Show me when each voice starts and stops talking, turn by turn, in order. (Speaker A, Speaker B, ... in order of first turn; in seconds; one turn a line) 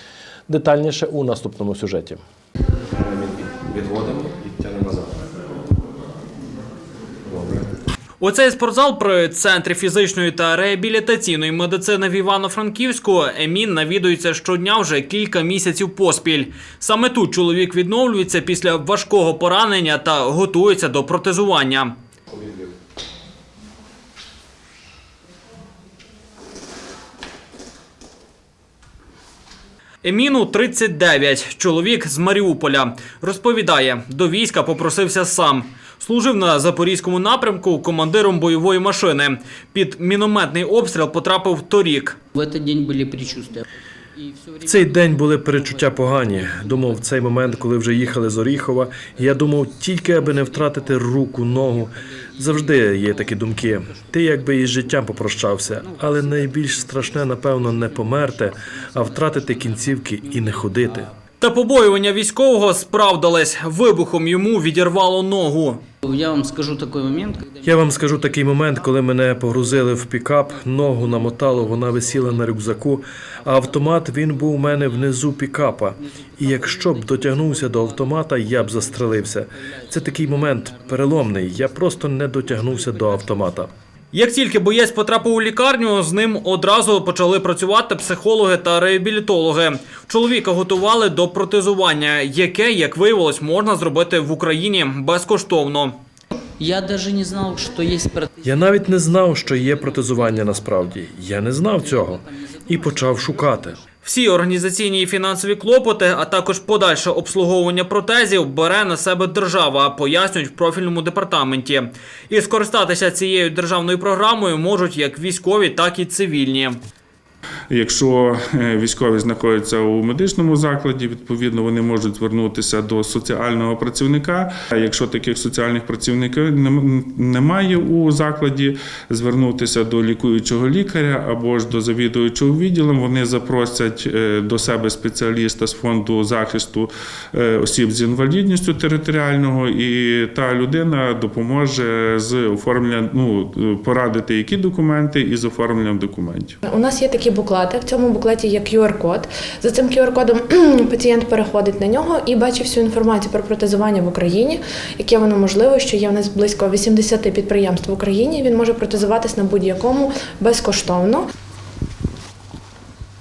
Speaker A: 0.5-2.2
Speaker B: 3.0-5.1
Speaker B: 7.3-7.6
Speaker C: 8.2-21.9
Speaker C: 30.0-42.2
Speaker D: 42.3-61.1
Speaker A: 44.6-61.1
Speaker C: 61.4-65.8
Speaker D: 66.0-83.7
Speaker A: 67.6-83.7
Speaker C: 84.1-95.9
Speaker D: 96.6-103.8
Speaker A: 98.4-103.8
Speaker C: 104.0-116.8
Speaker E: 117.7-146.6
Speaker F: 146.7-161.2